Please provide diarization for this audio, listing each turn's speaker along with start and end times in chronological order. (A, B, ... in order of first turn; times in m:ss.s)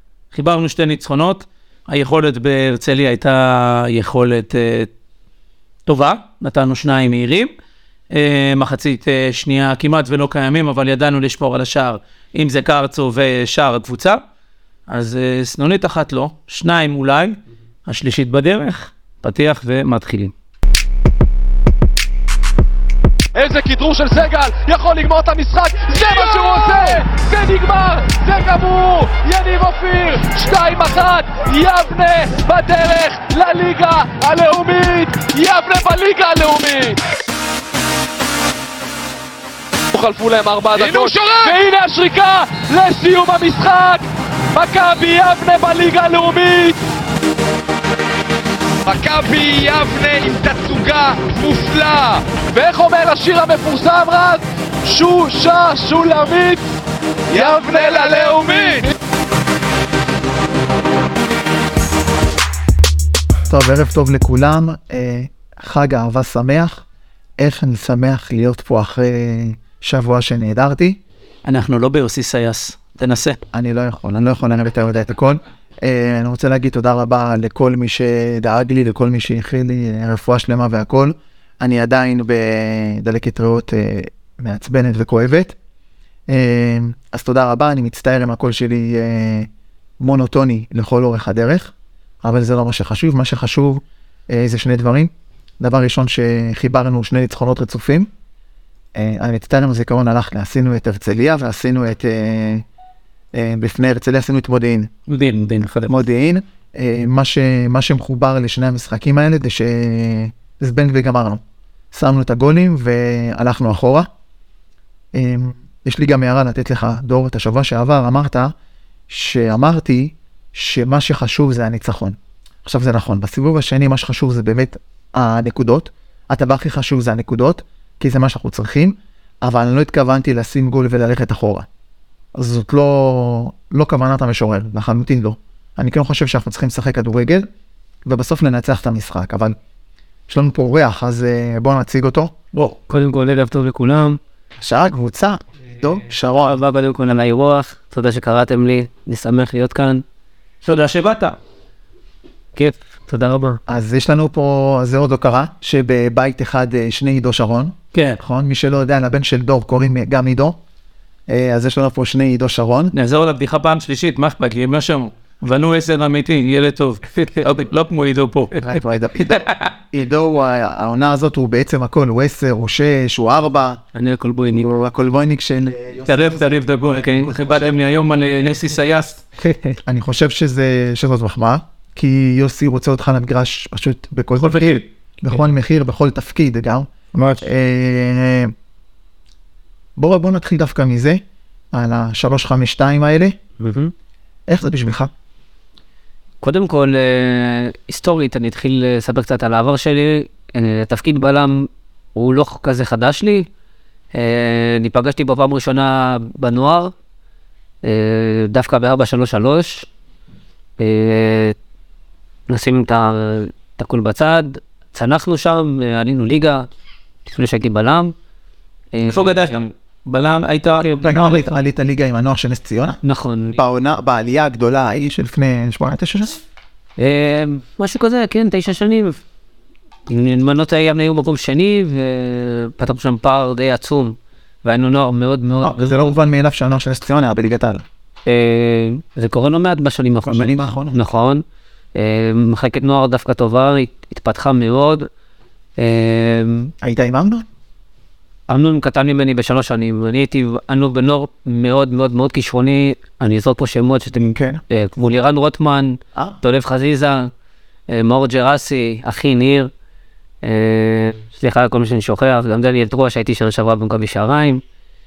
0:00.3-0:04.9 A
0:05.9-0:07.5 A
0:08.1-0:14.2 A
0:14.9-0:20.3 A
0:23.4-0:37.0 B
0:26.0-0:27.0 C
0:39.9-0:46.8 B
0:40.7-0:41.7 C
0:48.9-0:52.4 C
0:52.4-0:56.7 B
0:57.3-0:58.9 B
0:57.3-0:58.8 C
1:03.5-1:06.8 D
1:07.4-1:11.0 D
1:11.4-1:13.4 A
1:13.5-1:25.6 D
1:26.3-1:38.1 D
1:39.0-1:42.6 D
1:43.3-1:44.9 D
1:45.1-1:46.0 A
1:45.9-1:51.4 D
1:51.9-1:54.1 D
1:55.1-1:58.5 D
1:59.1-2:11.7 D
2:12.4-2:17.5 D
2:18.0-2:19.6 D
2:20.3-2:22.3 D
2:22.9-2:24.2 E
2:24.6-2:26.6 D
2:26.5-2:30.0 E
2:30.6-2:31.4 A
2:32.6-2:33.6 E
2:33.7-2:40.6 D
2:41.3-2:42.9 D
2:42.9-2:48.6 A
2:48.6-2:53.8 D
2:49.2-2:49.7 A
2:54.0-2:54.7 E
2:54.5-2:57.6 D
2:56.1-2:59.2 A
2:59.4-2:59.8 E
2:59.8-3:08.5 D
3:04.4-3:04.8 A
3:07.1-3:07.4 A
3:10.0-3:11.2 D
3:11.7-3:13.4 D
3:13.6-3:13.9 E
3:14.5-3:15.1 D
3:16.4-3:23.5 E
3:24.1-3:26.9 E
3:27.8-3:29.9 E
3:30.8-3:31.6 E
3:32.5-3:36.7 E
3:37.3-3:38.1 E
3:38.9-3:39.3 E
3:39.1-3:41.0 A
3:40.8-3:41.1 E
3:41.0-3:43.0 D
3:43.0-3:43.6 E
3:43.6-3:46.4 D
3:47.0-3:49.2 E
3:50.1-3:55.8 E
3:55.6-3:57.8 D
3:58.3-4:01.4 E
4:00.2-4:01.0 D
4:02.0-4:05.1 E
4:05.8-4:06.7 E
4:06.8-4:07.5 D
4:08.5-4:17.3 E
4:14.2-4:14.6 D
4:17.9-4:19.7 E
4:20.4-4:24.6 E